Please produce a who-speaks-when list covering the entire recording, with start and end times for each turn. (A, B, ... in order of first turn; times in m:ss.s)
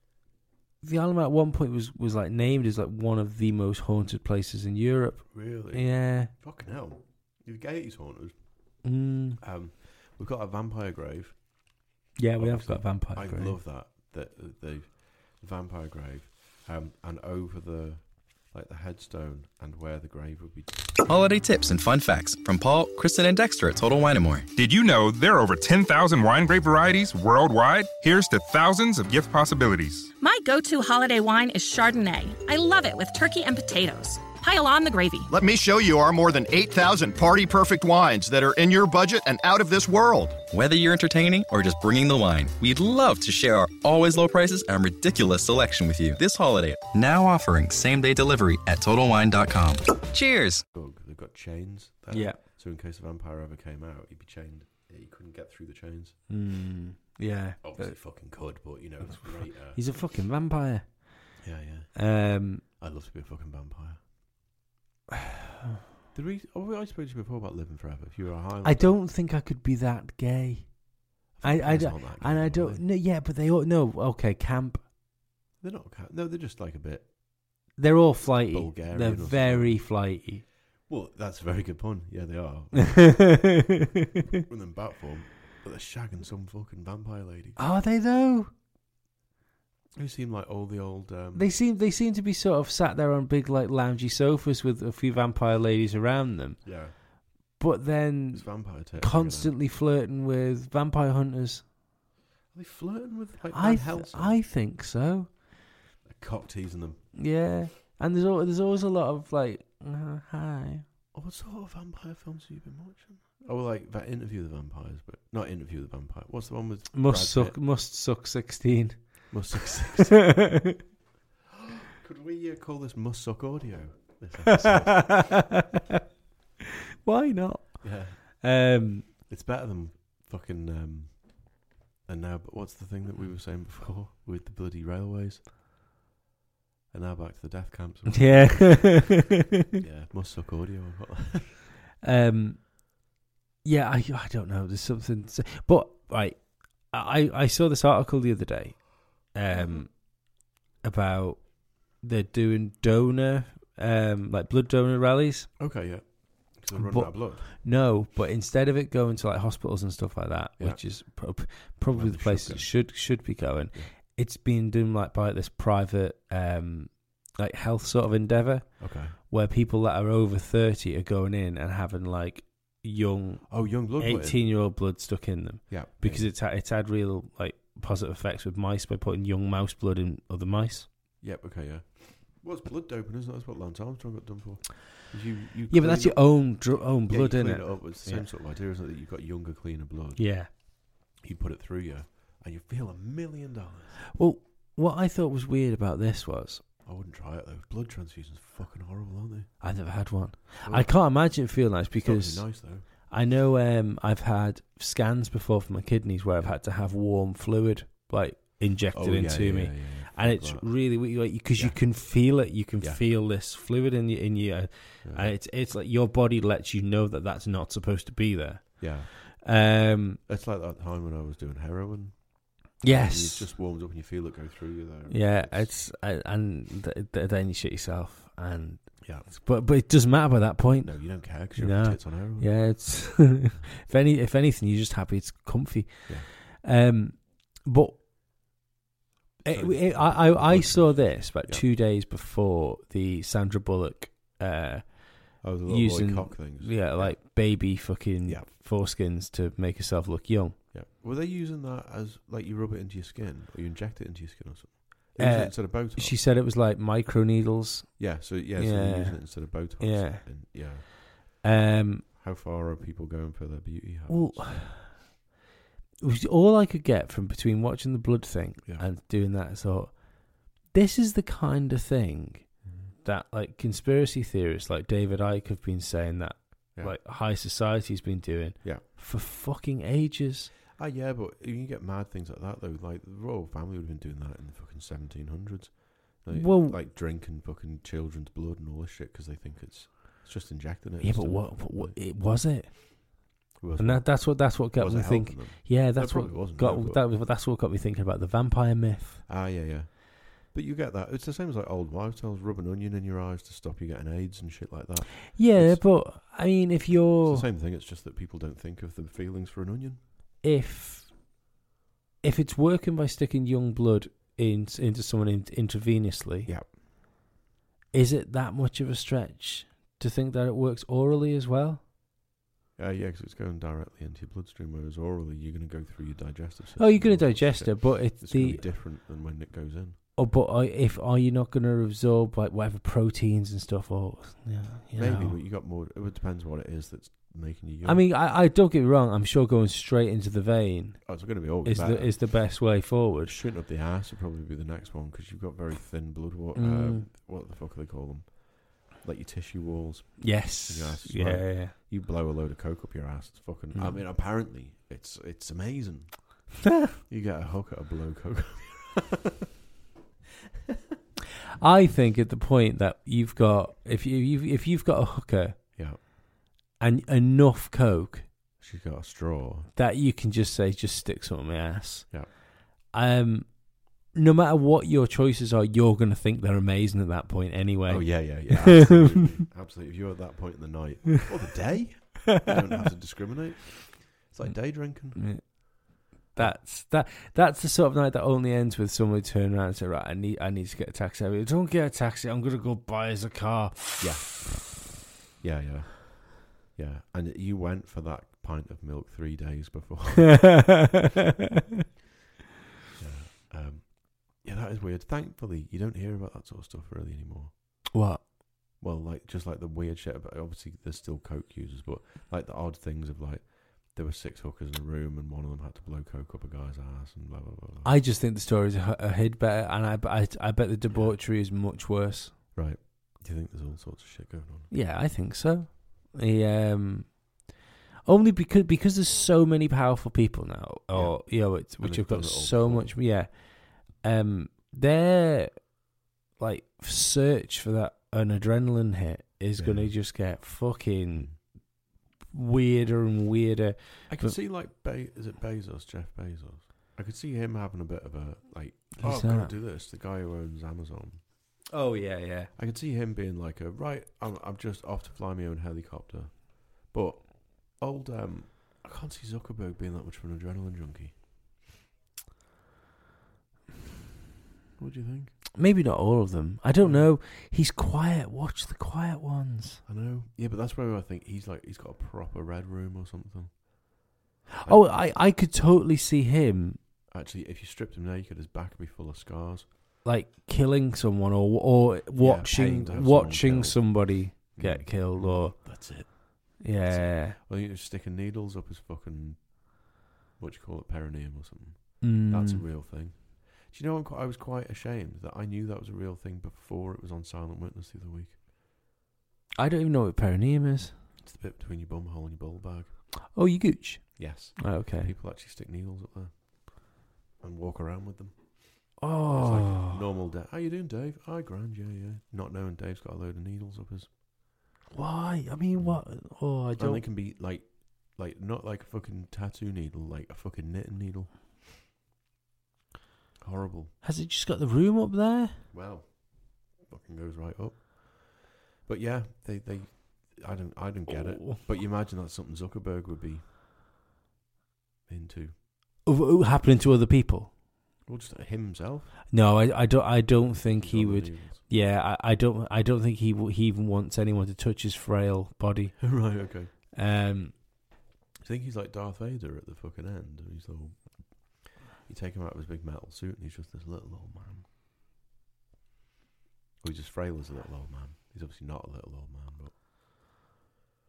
0:00.8-0:06.3 A
0:05.3-0:08.9 B
0:08.8-0:09.4 A
0:09.4-0:20.9 B
0:12.2-0:13.6 A
0:21.0-0:24.5 C
0:24.6-0:30.1 D
0:30.2-0:35.3 E
0:35.3-0:40.4 F
0:40.5-0:50.6 C
0:50.7-0:56.2 B
0:52.1-0:52.4 A
0:56.3-0:58.0 A
0:57.6-0:59.8 B
0:59.2-1:01.4 A
1:01.4-1:04.0 B
1:02.0-1:02.6 A
1:06.1-1:09.0 B
1:08.6-1:14.8 A
1:11.4-1:12.9 B
1:15.6-1:17.7 B
1:17.8-1:20.5 A
1:18.5-1:20.0 B
1:20.8-1:23.5 B
1:23.0-1:23.7 A
1:24.3-1:27.6 B
1:27.6-1:28.5 A
1:29.9-1:31.5 B
1:31.4-1:41.7 A
1:36.6-1:37.0 B
1:38.3-1:39.5 B
1:42.5-1:44.4 B
1:43.5-1:45.3 A
1:46.0-1:47.1 B
1:47.2-1:50.8 A
1:51.1-1:57.6 B
1:56.9-1:59.5 A
1:59.3-2:00.4 B
2:00.3-2:00.7 A
2:01.5-2:05.4 B
2:04.6-2:05.5 A
2:07.0-2:09.1 A
2:07.8-2:08.4 B
2:09.1-2:15.4 B
2:16.9-2:19.2 B
2:18.1-2:19.4 A
2:19.7-2:21.6 B
2:22.0-2:22.9 A
2:23.6-2:35.5 A
2:29.5-2:29.8 B
2:35.6-2:37.5 B
2:36.7-3:00.9 A
2:40.6-2:41.0 B
2:41.9-2:43.9 B
2:48.8-2:49.2 B
2:53.5-2:54.6 B
2:55.7-2:56.3 B
3:01.2-3:14.0 B
3:05.7-3:08.3 A
3:10.2-3:10.5 A
3:14.1-3:16.6 A
3:16.8-3:19.6 B
3:19.6-3:40.2 A
3:20.6-3:22.9 B
3:26.4-3:26.6 B
3:28.9-3:33.0 B
3:35.0-3:35.4 B
3:38.8-3:39.1 B
3:40.3-3:45.8 B
3:42.8-3:43.5 A
3:45.1-3:58.0 A
3:49.0-3:49.3 B
3:50.8-3:53.4 B
3:59.4-4:01.7 B
3:59.4-4:10.6 A
4:05.4-4:08.5 B
4:10.7-4:16.2 B
4:15.2-4:22.1 A
4:18.0-4:21.4 B
4:22.2-4:24.8 B
4:24.1-4:25.2 A
4:26.0-4:40.5 A
4:32.7-4:32.9 B
4:40.7-4:52.0 B
4:46.3-4:46.8 A
4:51.0-4:59.2 A
4:53.6-4:57.1 B
4:59.3-5:06.1 B
5:05.3-5:07.5 A
5:06.9-5:10.0 B
5:10.4-5:11.2 A
5:12.2-5:16.5 A
5:16.5-5:16.8 B
5:17.9-5:21.8 A
5:22.8-5:30.0 B
5:26.8-5:28.7 A
5:30.2-5:35.4 A
5:34.9-5:38.0 B
5:37.8-5:43.4 A
5:41.0-5:59.3 B
5:46.6-5:47.1 A
5:50.2-5:51.7 A
5:53.7-5:54.0 A
6:01.6-6:06.1 A
6:05.8-6:06.0 B
6:06.8-6:08.3 A
6:08.6-6:09.7 B
6:09.8-6:19.0 A
6:17.9-6:25.7 B
6:24.4-6:34.0 A
6:34.0-6:34.8 B
6:35.4-6:40.6 B
6:40.4-6:40.8 A
6:43.0-6:47.9 B
6:47.9-6:48.2 A
6:48.8-6:58.0 B
6:57.8-7:02.4 A
7:00.9-7:01.2 B
7:02.5-7:04.7 B
7:04.7-7:07.5 A
7:08.0-7:24.4 A
7:10.9-7:13.0 B
7:19.6-7:20.4 B
7:21.1-7:21.4 B
7:24.1-7:31.2 B
7:29.0-7:29.5 A
7:31.7-7:32.5 A
7:32.6-7:41.2 B
7:44.8-7:45.4 B
7:45.6-7:49.8 A
7:46.8-7:47.1 B
7:49.9-7:54.1 B
7:54.6-7:56.8 A
7:54.6-7:55.1 B
7:57.1-7:59.7 B
8:00.0-8:06.0 A
8:02.2-8:18.4 B
8:06.6-8:07.4 A
8:12.0-8:12.6 A
8:19.6-8:21.0 A
8:21.2-8:23.3 B
8:23.3-8:25.1 A
8:24.2-8:34.1 B
8:29.0-8:30.0 A
8:34.9-8:37.0 A
8:35.8-8:41.3 B
8:43.4-8:44.0 B
8:44.0-8:45.6 A
8:45.7-8:53.4 B
8:51.1-8:51.6 A
8:55.1-8:55.6 B
8:56.0-8:57.6 A
8:58.1-8:59.2 B
8:59.3-9:07.6 A
9:00.7-9:01.6 B
9:06.0-9:06.7 B
9:08.4-9:14.7 B
9:16.8-9:19.8 B